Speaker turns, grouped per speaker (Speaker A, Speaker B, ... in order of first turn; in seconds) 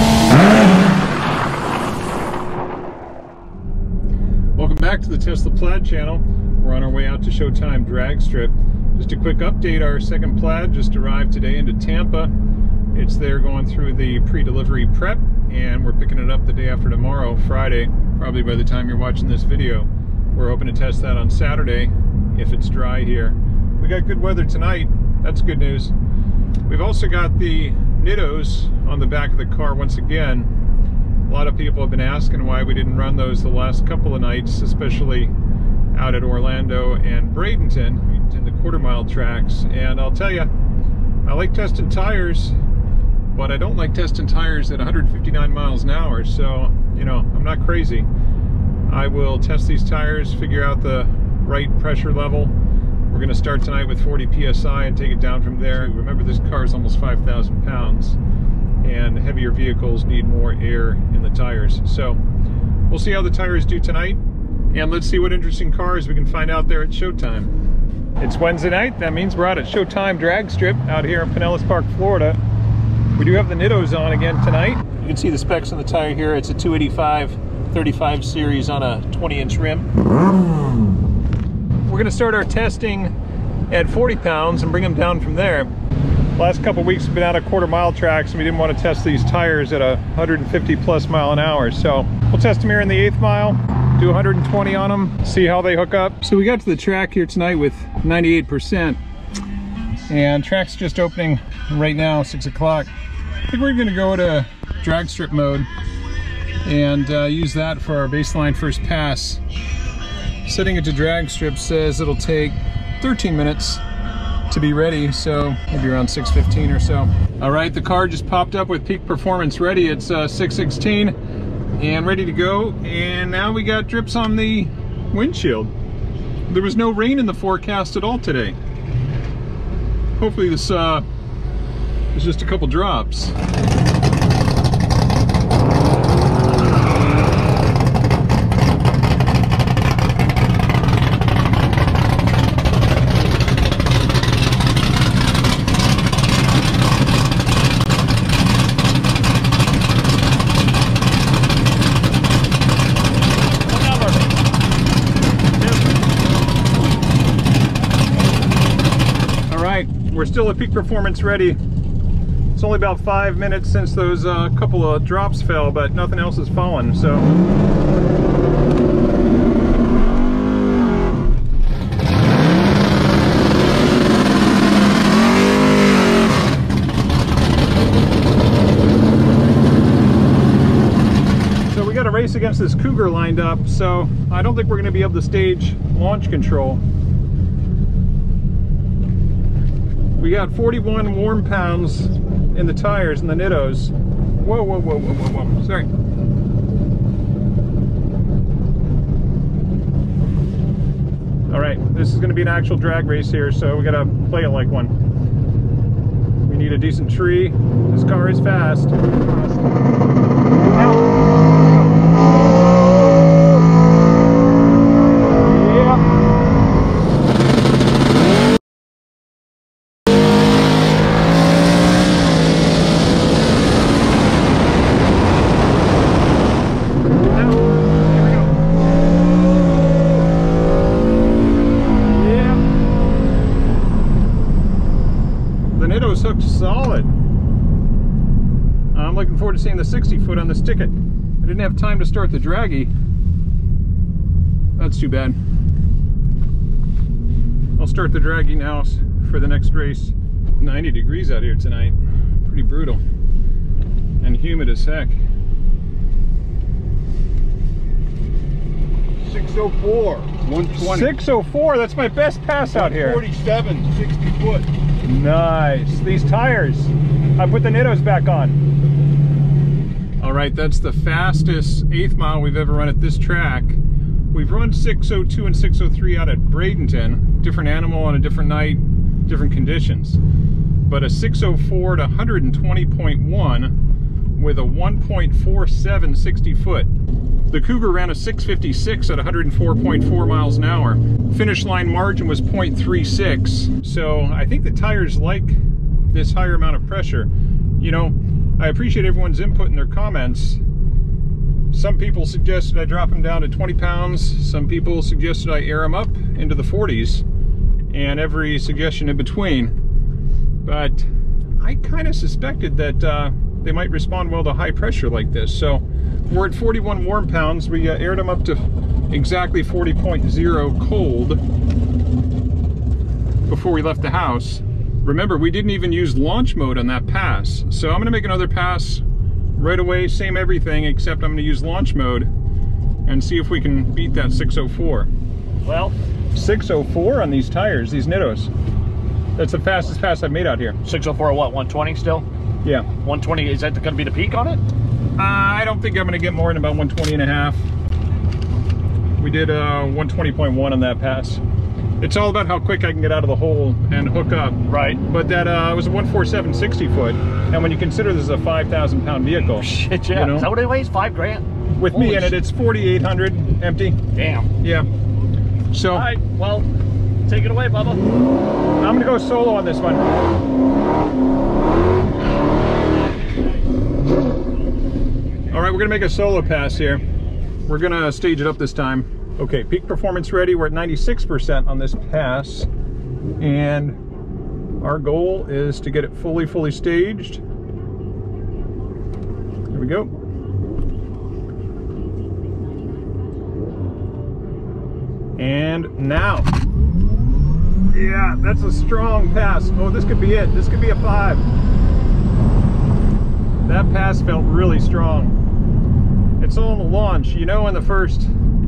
Speaker A: 4.5-12.3, 12.9-25.9, 26.6-30.5, 31.3-35.3, 35.9-40.5, 41.2-42.5, 43.3-48.1, 48.9-52.5, 53.1-58.2, 58.8-62.2, 62.9-64.2, 64.7-67.5, 68.2-72.4, 73.1-79.9, 81.9-83.1, 83.7-85.7, 86.3-99.0, 100.1-102.9, 103.5-105.7, 106.6-109.4, 110.4-113.8, 114.5-121.2, 121.8-125.7, 126.5-128.6, 130.2-131.1, 132.1-133.3, 159.5-161.6, 162.5-167.3, 181.7-186.8, 190.2-195.9, 201.5-205.0, 206.4-209.6, 210.6-211.1, 215.4-216.0, 227.3-228.6, 232.1-232.6, 235.7-237.1, 238.9-242.9, 244.8-245.4, 247.8-253.0, 254.2-255.2, 260.8-263.2, 265.0-268.6, 270.2-273.8, 274.3-280.2, 280.9-283.7, 284.4-286.9, 287.5-295.6, 296.1-300.6, 301.7-307.2, 307.9-309.7, 310.6-311.1, 311.6-321.4, 323.5-329.0, 329.6-332.3, 333.0-335.1, 336.3-338.5, 339.4-340.8, 345.2-347.6, 349.2-351.4, 352.0-360.5, 361.8-364.0, 364.6-364.9, 365.7-366.1, 368.8-370.1, 375.5-377.0, 377.7-382.7, 383.4-384.0, 384.8-387.4, 389.7-390.1, 395.4-396.5, 397.9-401.4, 403.6-405.4, 406.4-408.3
Speaker B: 153.7-154.4, 335.6-335.9, 340.8-342.2, 342.9-344.6, 354.7-355.0, 359.6-362.4, 364.1-364.5, 365.9-366.7, 367.3-368.1
Speaker C: 259.2-261.1, 262.7-264.7